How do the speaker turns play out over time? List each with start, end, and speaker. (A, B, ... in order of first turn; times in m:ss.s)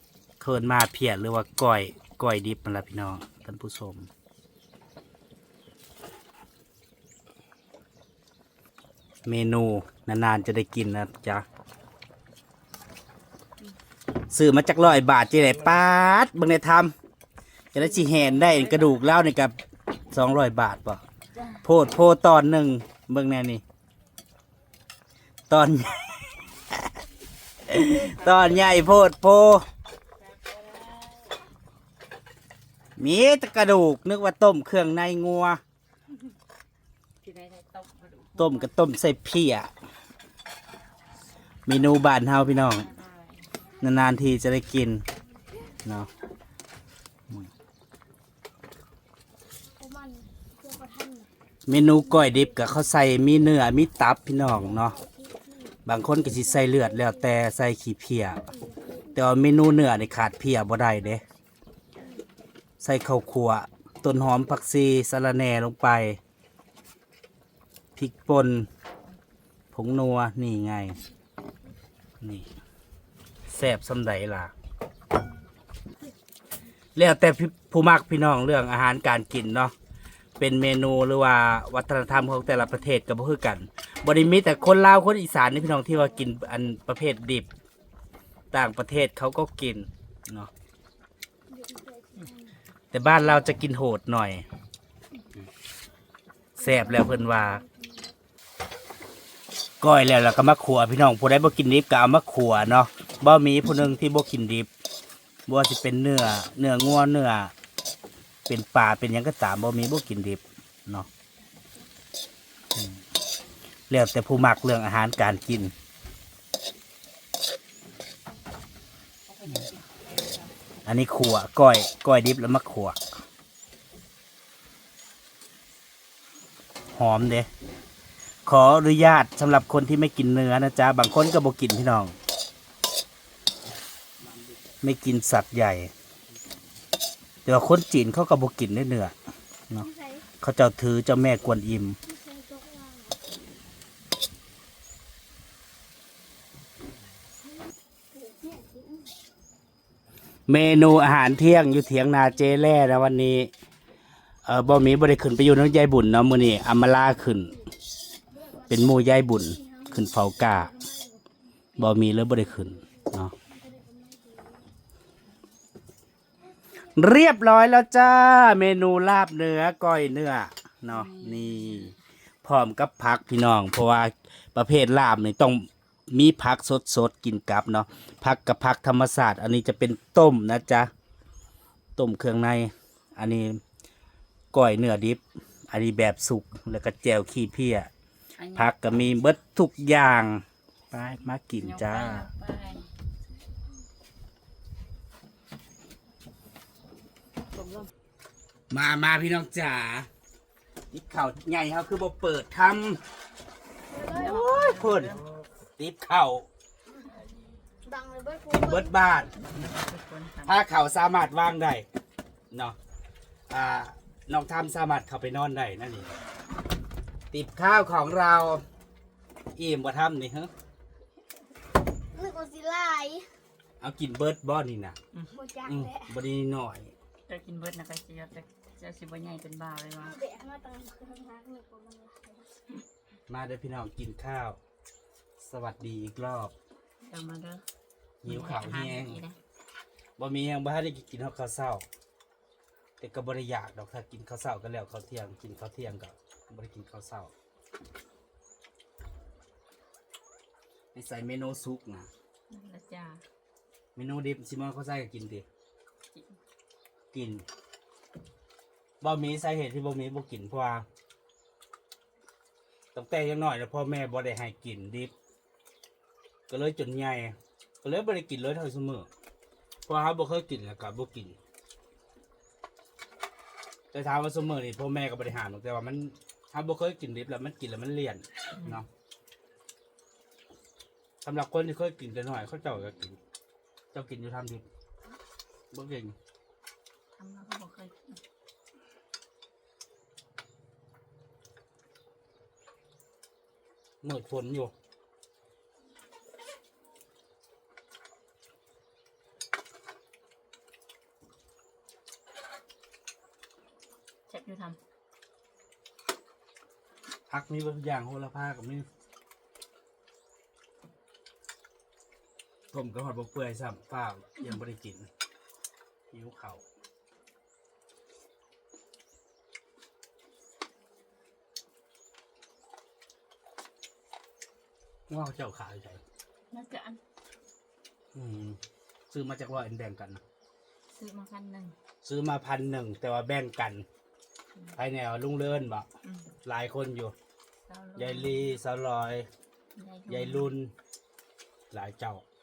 0:00.4-0:04.1 A
0:09.2-0:11.4 A
0:14.3-0:16.9 A
0:17.7-0:19.0 B
0:17.7-0:19.6 A
0:20.1-0:21.0 A
0:21.6-0:23.6 A
0:25.5-0:26.8 A
0:27.6-0:29.6 A
0:27.8-0:28.8 B
0:30.2-0:31.4 B
0:33.0-0:35.6 A
0:37.2-0:38.7 B
0:38.4-0:39.7 A
0:41.6-0:42.9 A
0:42.7-0:43.5 B
0:43.8-0:45.0 A
0:45.8-0:46.1 A
0:49.7-0:51.3 C
0:51.7-0:55.0 A
0:51.9-0:52.5 C
0:54.8-0:57.2 C
0:55.8-0:58.4 A
0:58.3-0:59.2 C
0:59.1-1:01.2 A
1:02.8-1:06.2 A
1:08.0-1:08.7 A
1:09.7-1:11.0 A
1:12.2-1:12.5 A
1:13.5-1:14.5 A
1:16.9-1:19.7 A
1:20.4-1:27.5 A
1:28.5-1:30.5 A
1:31.5-1:32.5 C
1:32.9-1:34.4 A
1:36.6-1:37.6 A
1:36.6-1:38.1 C
1:39.8-1:44.7 A
1:45.5-1:47.5 A
1:48.5-1:51.1 A
1:53.9-1:55.7 A
1:59.3-2:00.5 B
2:00.8-2:03.0 A
2:06.9-2:07.5 A
2:08.4-2:12.2 A
2:14.8-2:15.9 A
2:17.4-2:19.1 A
2:19.8-2:20.2 C
2:20.4-2:22.0 A
2:22.0-2:23.2 C
2:28.1-2:29.1 C
2:30.5-2:33.5 A
2:34.4-2:37.6 A
2:38.3-2:38.8 C
2:38.7-2:40.7 A
2:39.5-2:41.2 C
2:41.8-2:43.3 A
2:43.5-2:44.6 C
2:46.9-3:00.9 A
2:50.8-2:52.0 B
3:02.0-3:03.6 A
3:04.5-3:07.9 A
3:08.4-3:08.7 B
3:08.5-3:12.3 A
3:11.5-3:12.9 B
3:17.5-3:17.9 B
3:18.7-3:20.1 A
3:20.9-3:23.0 A
3:23.9-3:24.5 C
3:24.1-3:25.3 B
3:24.2-3:25.1 A
3:25.8-3:26.5 A
3:27.8-3:29.2 C
3:28.6-3:29.3 A
3:29.3-3:30.6 B
3:30.4-3:31.8 A
3:32.5-3:32.8 A
3:33.5-3:36.1 A
3:37.3-3:38.6 A
3:39.6-3:40.5 A
3:42.1-3:43.3 C
3:43.8-3:45.0 A
3:45.3-3:46.1 C
3:45.6-3:46.9 A
3:47.3-3:50.2 B
3:50.0-3:52.6 C
3:53.3-3:54.6 A
3:55.4-3:56.5 A
3:57.0-3:57.6 B
3:58.2-3:59.2 A
3:58.2-3:59.4 B
4:00.2-4:01.8 A
4:03.0-4:07.3 A
4:10.9-4:12.1 A
4:12.5-4:13.2 B
4:14.0-4:15.4 A
4:17.1-4:17.4 A
4:19.0-4:20.8 A
4:22.9-4:25.1 A
4:26.5-4:29.1 A
4:29.8-4:31.4 A
4:33.9-4:38.9 A
4:38.6-4:38.8 B
4:41.2-4:43.2 A
4:43.9-4:44.6 A
4:45.7-4:46.2 A
4:47.1-4:48.2 B
4:54.0-4:54.7 A
5:04.3-5:04.8 B
5:07.3-5:08.9 A
5:12.7-5:15.1 A
5:16.1-5:16.6 A
5:25.1-5:26.0 A
5:26.5-5:27.0 B
5:28.1-5:28.6 A
5:29.1-5:30.2 A
5:30.9-5:31.8 B
5:32.0-5:33.8 A
5:34.8-5:35.8 A
5:36.0-5:36.3 B
5:36.4-5:37.1 A
5:37.7-5:38.5 B
5:38.0-5:39.3 A
5:39.7-5:40.5 B
5:40.1-5:40.7 A
5:41.7-5:42.2 A